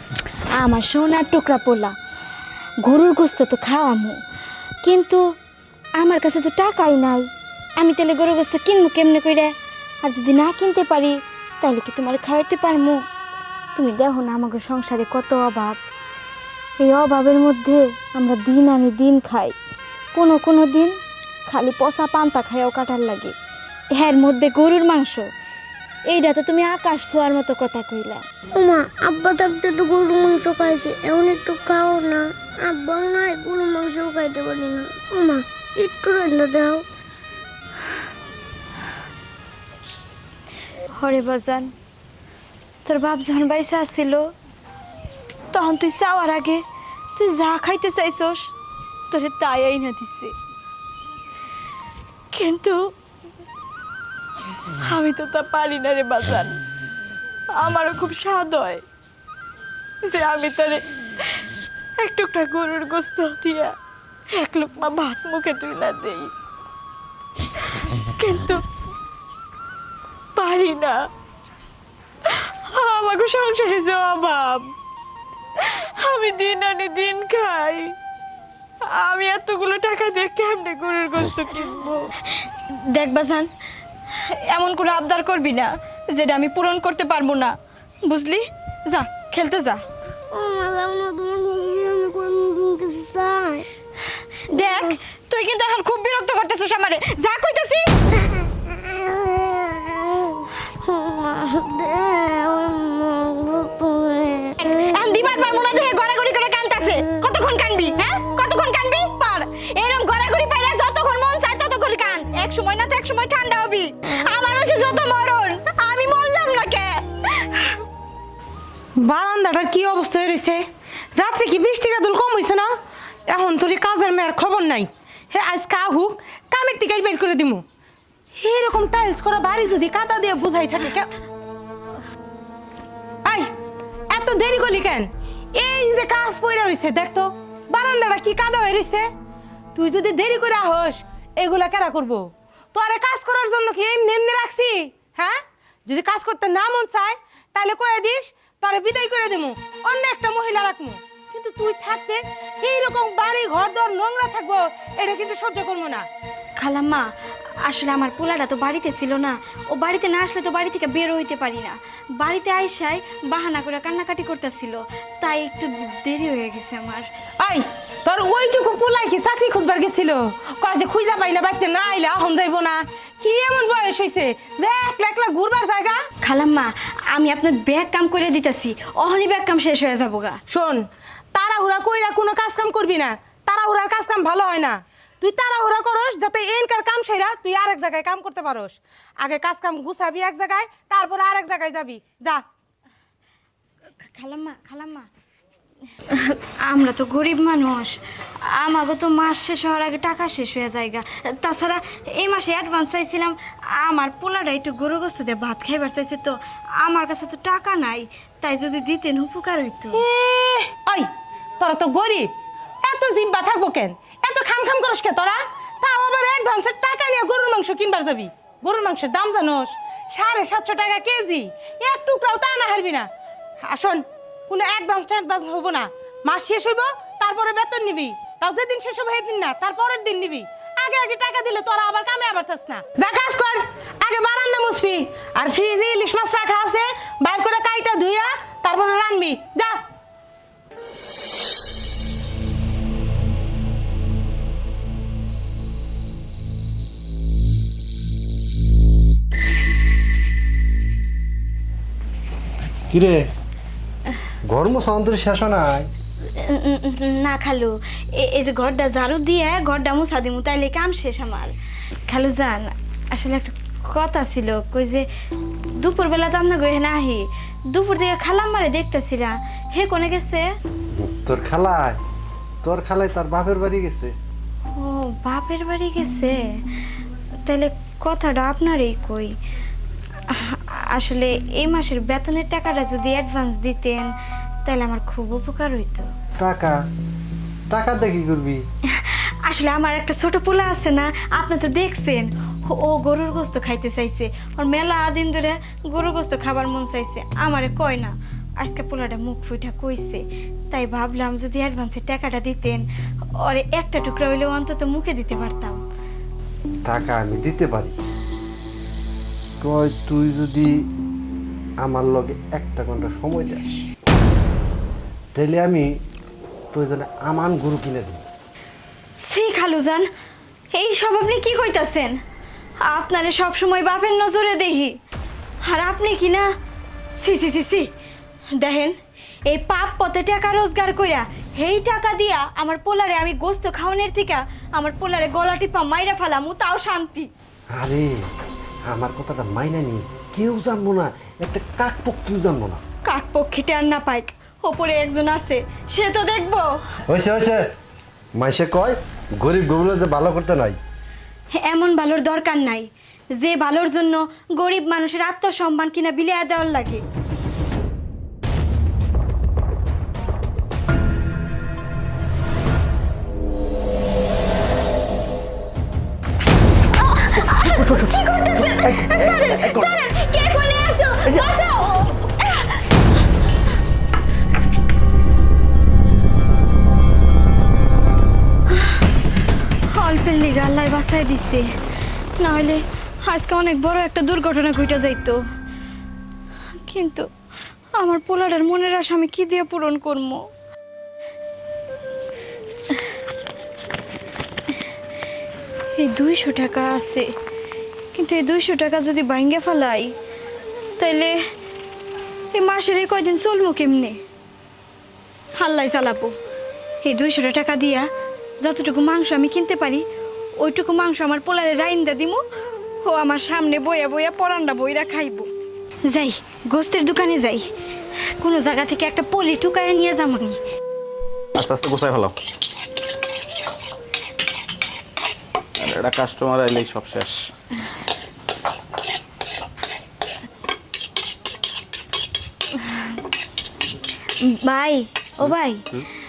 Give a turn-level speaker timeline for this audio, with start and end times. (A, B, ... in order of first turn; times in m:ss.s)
0:00.6-0:01.9 A
0:02.8-0:04.2 A
0:04.8-0:05.2 A
0:06.0-0:07.3 A
0:07.8-0:13.0 A
0:13.8-0:15.8 A
0:16.8-0:19.5 A
0:20.1-0:20.9 A
0:21.5-0:23.3 A
0:24.0-0:25.2 A
0:26.1-0:28.2 A
0:28.5-0:36.8 B
0:40.9-0:41.7 A
0:42.8-0:44.3 A
0:45.5-0:46.6 A
0:47.2-0:48.5 A
0:49.1-0:50.3 A
0:52.3-0:52.9 A
0:54.8-0:56.6 A
0:57.5-0:58.8 A
1:00.0-1:00.8 A
1:02.0-1:03.7 A
1:04.3-1:06.3 A
1:08.0-1:08.6 A
1:10.4-1:11.0 A
1:12.7-1:14.7 A
1:15.7-1:17.9 A
1:18.9-1:22.1 A
1:22.9-1:23.5 A
1:24.5-1:27.5 A
1:28.0-1:29.8 A
1:30.3-1:33.7 B
1:34.5-1:37.9 A
1:38.4-1:44.6 B
1:44.6-1:57.5 A
1:59.0-2:00.6 C
2:01.2-2:02.7 C
2:03.3-2:07.6 C
2:08.4-2:11.1 C
2:14.1-2:19.0 C
2:19.7-2:25.4 C
2:25.9-2:36.0 C
2:36.6-2:37.1 A
2:37.6-2:47.0 A
2:47.4-2:56.0 C
2:56.2-3:00.4 A
3:00.5-3:00.8 C
3:01.3-3:12.4 C
3:14.0-3:15.1 A
3:16.1-3:30.0 A
3:29.9-3:31.1 C
3:31.6-3:32.3 C
3:32.8-3:43.0 C
3:43.7-3:59.8 C
4:12.9-4:13.2 D
4:14.5-4:15.9 D
4:16.3-4:21.5 A
4:22.1-4:25.0 A
4:25.8-4:30.4 A
4:31.0-4:32.0 D
4:32.6-4:34.1 D
4:34.8-4:36.4 A
4:37.4-4:39.3 A
4:40.4-4:44.1 A
4:44.6-4:46.1 A
4:46.4-4:46.7 D
4:47.7-4:48.6 D
4:49.0-5:02.8 A
5:03.4-5:05.8 A
5:06.9-5:07.9 D
5:09.6-5:10.7 D
5:11.8-5:13.6 D
5:15.3-5:15.9 D
5:16.7-5:18.2 D
5:19.2-5:20.0 A
5:20.7-5:22.1 A
5:22.9-5:24.9 A
5:25.6-5:26.5 A
5:27.2-5:27.8 A
5:28.6-5:28.9 A
5:29.5-5:37.3 A
5:37.7-5:38.1 D
5:38.9-5:42.8 D
5:43.0-5:46.8 A
5:47.1-5:47.6 D
5:48.4-5:50.8 D
5:51.6-5:57.0 A
6:07.0-6:12.6 A
6:07.6-6:08.0 D
6:09.0-6:09.7 D
6:19.9-6:21.6 A
6:22.4-6:25.4 A
6:26.8-6:27.3 A
6:28.0-6:30.4 A
6:36.0-6:37.3 A
6:38.1-6:40.1 A
6:41.0-6:41.4 A
6:42.5-6:44.2 A
6:45.6-6:46.3 A
6:47.0-6:48.0 A
6:48.6-6:50.0 A
6:50.6-6:52.4 A
6:53.0-6:55.5 A
6:56.1-6:57.6 A
6:58.4-7:00.6 A
7:01.6-7:02.3 E
7:05.8-7:07.4 E
7:14.5-7:15.8 A